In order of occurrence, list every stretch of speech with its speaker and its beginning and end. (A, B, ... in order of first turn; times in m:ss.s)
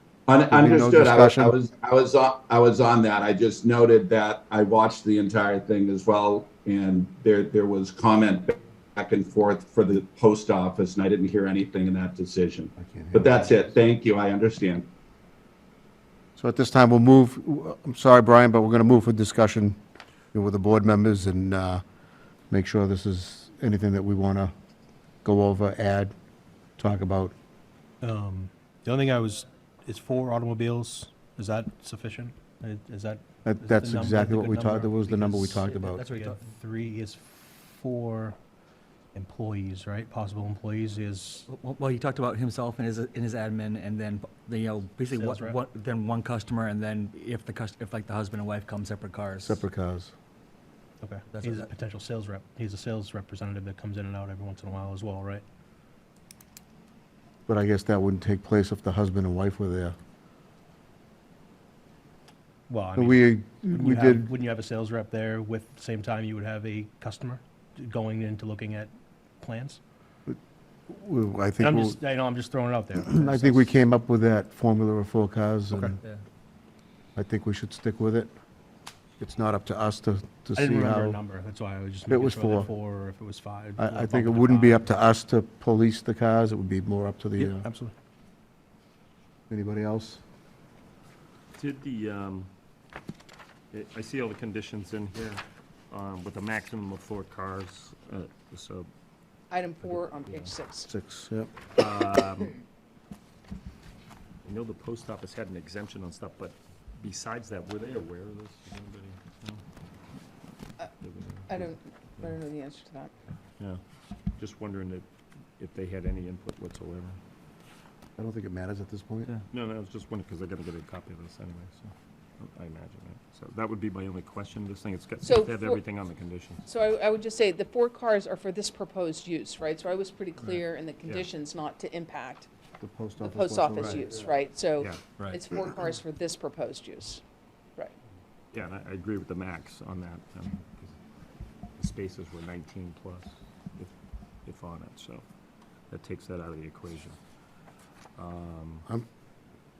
0:00.3-0:14.9 A
0:00.5-0:01.5 B
0:12.8-0:13.8 B
0:16.4-0:19.8 B
0:20.3-0:21.8 B
0:22.5-0:24.5 B
0:25.2-0:26.1 B
0:26.8-0:27.3 B
0:28.0-0:38.4 C
0:33.4-0:36.0 B
0:35.7-0:36.4 D
0:39.1-0:41.5 C
0:41.5-0:49.6 D
0:45.0-0:45.6 C
0:49.4-0:50.1 B
0:51.0-0:55.4 C
0:51.3-0:51.7 D
0:57.5-0:59.9 B
1:02.7-1:09.8 C
1:03.0-1:04.3 B
1:10.3-1:12.0 B
1:11.6-1:13.7 C
1:13.0-1:16.0 B
1:15.7-1:16.0 C
1:17.2-1:18.3 B
1:19.2-1:21.2 B
1:20.6-1:24.9 C
1:22.1-1:22.7 B
1:23.8-1:27.6 B
1:27.4-1:27.9 C
1:29.5-1:30.2 B
1:31.6-1:32.5 E
1:33.7-1:38.9 E
1:39.5-1:40.9 F
1:39.8-1:40.5 E
1:40.9-1:41.5 B
1:41.7-1:42.6 E
1:44.4-1:49.6 E
1:51.0-1:52.3 E
1:51.5-1:53.1 F
1:54.4-1:55.1 E
1:55.6-1:57.2 E
1:58.2-1:59.3 B
1:59.5-2:06.7 E
2:05.2-2:05.8 F
2:06.7-2:12.5 F
2:10.4-2:11.3 E
2:12.8-2:14.3 B
2:13.2-2:17.2 F
2:14.8-2:15.1 E
2:15.0-2:15.4 D
2:18.5-2:21.0 E
2:21.8-2:23.9 E
2:24.4-2:25.2 E
2:25.9-2:27.2 E
2:28.2-2:28.8 E